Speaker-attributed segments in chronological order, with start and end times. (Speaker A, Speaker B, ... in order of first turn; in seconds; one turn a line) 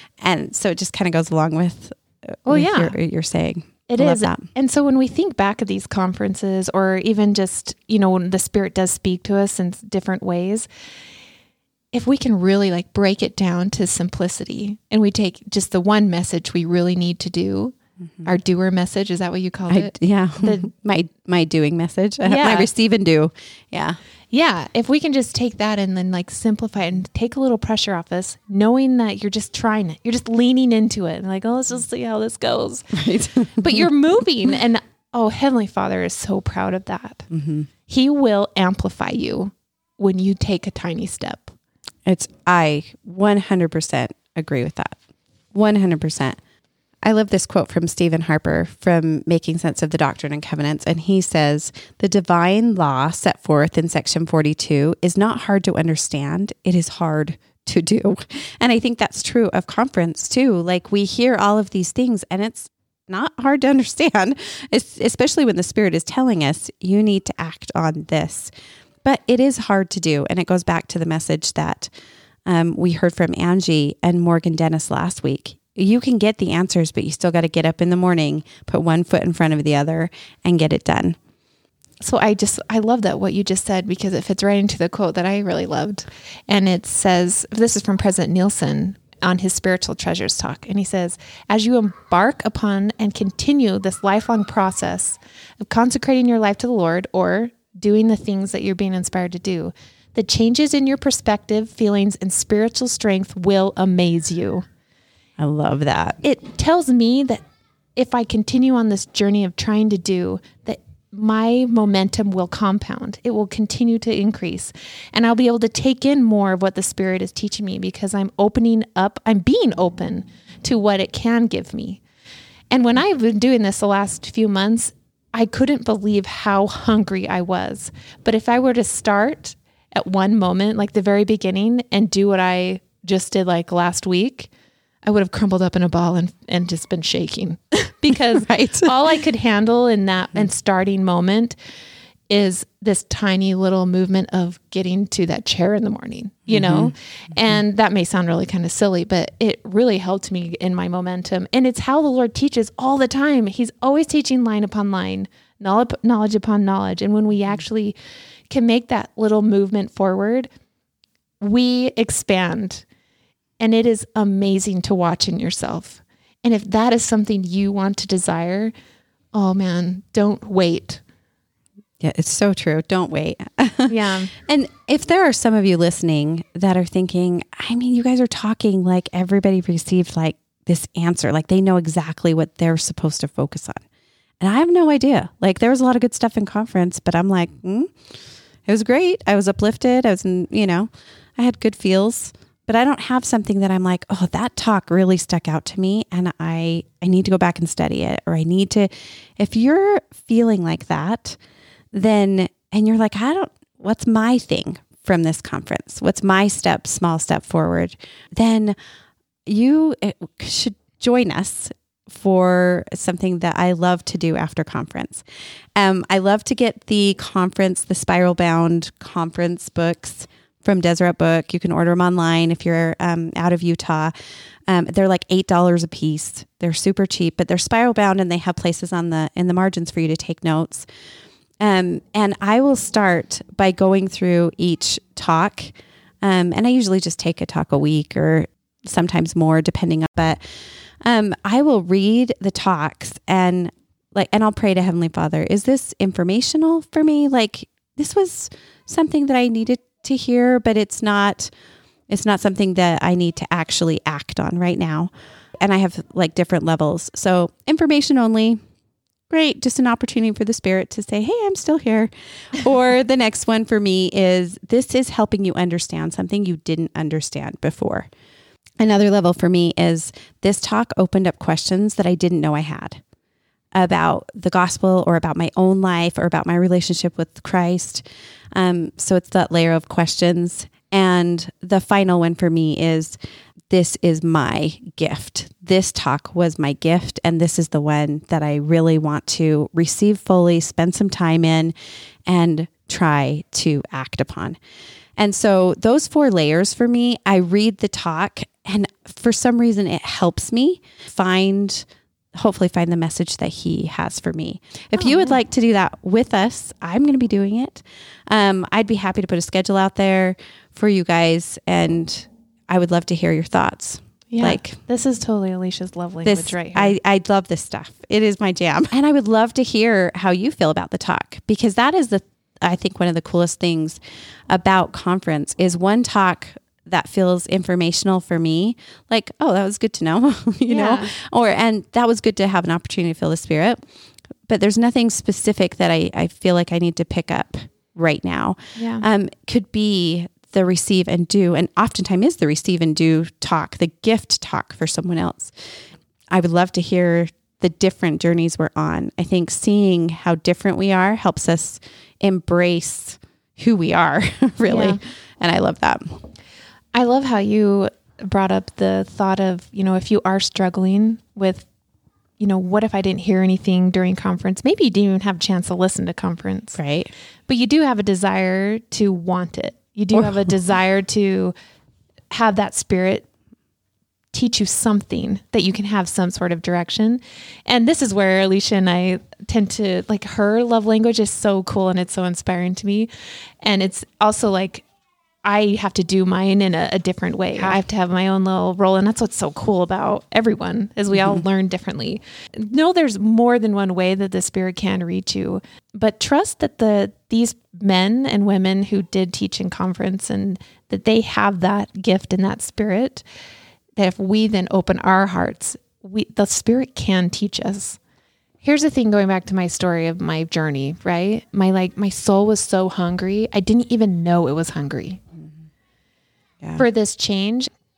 Speaker A: 0.2-4.5
Speaker B: 2.5-2.9
Speaker B: 3.9-10.7
Speaker B: 11.9-20.7
Speaker A: 19.7-24.0
Speaker B: 22.2-22.7
Speaker B: 24.3-33.0
Speaker A: 32.9-33.9
Speaker B: 33.6-37.3
Speaker A: 37.3-37.7
Speaker B: 37.9-41.5
Speaker A: 42.0-45.0
Speaker A: 45.5-46.4
Speaker A: 47.0-68.5
Speaker A: 69.0-71.9
Speaker A: 72.4-81.2
Speaker B: 82.0-104.6
Speaker A: 105.4-106.2
Speaker B: 106.2-107.4
Speaker B: 108.0-122.0
Speaker B: 122.7-134.5
Speaker B: 135.0-141.6
Speaker A: 138.3-138.9
Speaker B: 142.3-157.9
Speaker A: 146.5-146.9
Speaker B: 158.5-160.5
Speaker B: 161.4-162.8
Speaker B: 163.6-168.7
Speaker B: 169.3-171.0
Speaker A: 172.0-183.8
Speaker B: 173.9-174.3
Speaker A: 184.4-187.9
Speaker A: 188.7-201.4
Speaker A: 201.9-208.8
Speaker A: 209.4-215.2
Speaker A: 215.8-224.1
Speaker A: 224.7-230.9
Speaker A: 231.6-240.4
Speaker A: 241.0-251.5
Speaker A: 252.1-258.6
Speaker A: 259.3-268.1
Speaker A: 268.8-273.0
Speaker A: 273.7-283.2
Speaker A: 283.7-291.7
Speaker A: 292.2-294.6
Speaker A: 295.2-314.8
Speaker B: 304.9-305.4
Speaker B: 314.3-316.9
Speaker A: 316.2-333.8
Speaker B: 330.7-331.1
Speaker A: 334.5-345.5
Speaker B: 338.8-339.0
Speaker A: 346.3-356.2
Speaker B: 354.6-355.0
Speaker B: 356.9-361.7
Speaker B: 362.4-366.8
Speaker A: 366.8-367.1
Speaker B: 367.5-371.5
Speaker B: 372.3-373.2
Speaker B: 374.3-383.1
Speaker B: 383.6-384.9
Speaker B: 385.4-403.2
Speaker A: 387.6-387.8
Speaker A: 391.1-391.4
Speaker B: 404.0-408.0
Speaker B: 408.6-415.2
Speaker B: 416.8-417.7